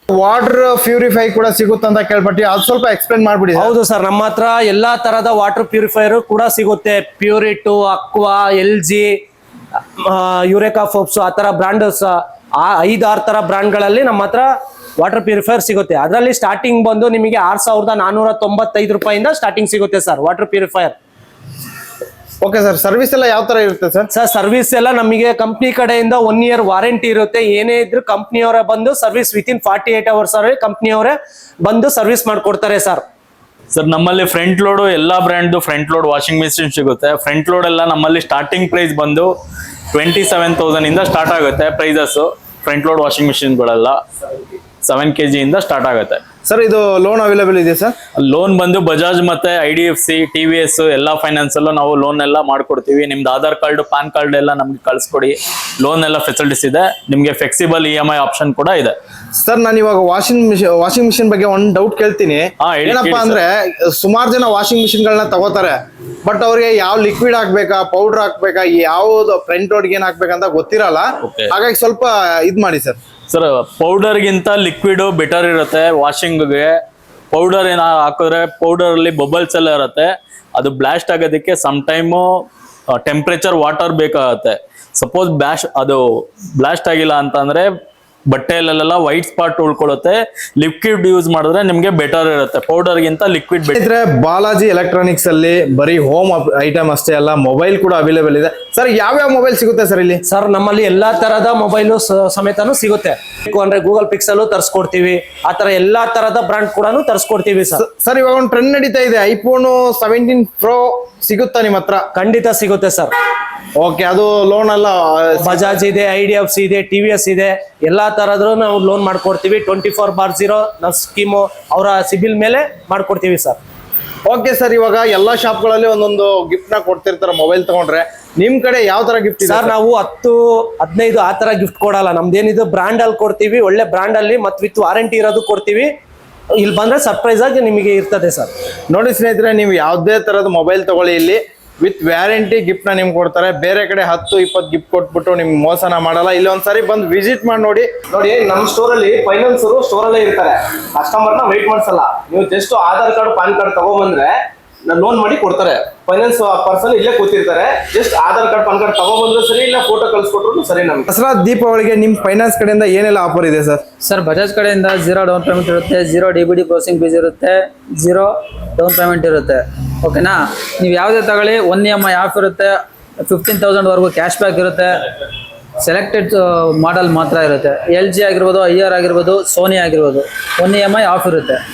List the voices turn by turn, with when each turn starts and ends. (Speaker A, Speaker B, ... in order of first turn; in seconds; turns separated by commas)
Speaker A: 0.1-3.8, Speaker B: 3.5-9.2, Speaker B: 10.0-20.9, Speaker A: 22.4-24.1, Speaker B: 24.1-33.0, Speaker C: 33.7-39.3, Speaker C: 39.9-44.0, Speaker C: 44.8-46.2, Speaker A: 46.5-48.0, Speaker C: 48.2-59.0, Speaker A: 59.4-73.0, Speaker C: 62.6-63.4, Speaker C: 71.2-71.5, Speaker C: 73.3-76.7, Speaker C: 77.3-82.5, Speaker C: 83.0-86.0, Speaker C: 86.6-87.7, Speaker C: 88.3-93.8, Speaker A: 93.7-100.2, Speaker B: 100.3-107.8, Speaker A: 107.8-112.0, Speaker B: 112.2-113.1, Speaker A: 113.8-115.8, Speaker B: 115.4-123.6, Speaker A: 124.3-129.8, Speaker B: 129.4-135.9, Speaker B: 136.6-138.5, Speaker A: 138.9-147.9, Speaker D: 148.1-154.4, Speaker D: 154.9-161.1, Speaker A: 161.1-163.8, Speaker E: 164.0-175.2, Speaker E: 175.8-181.6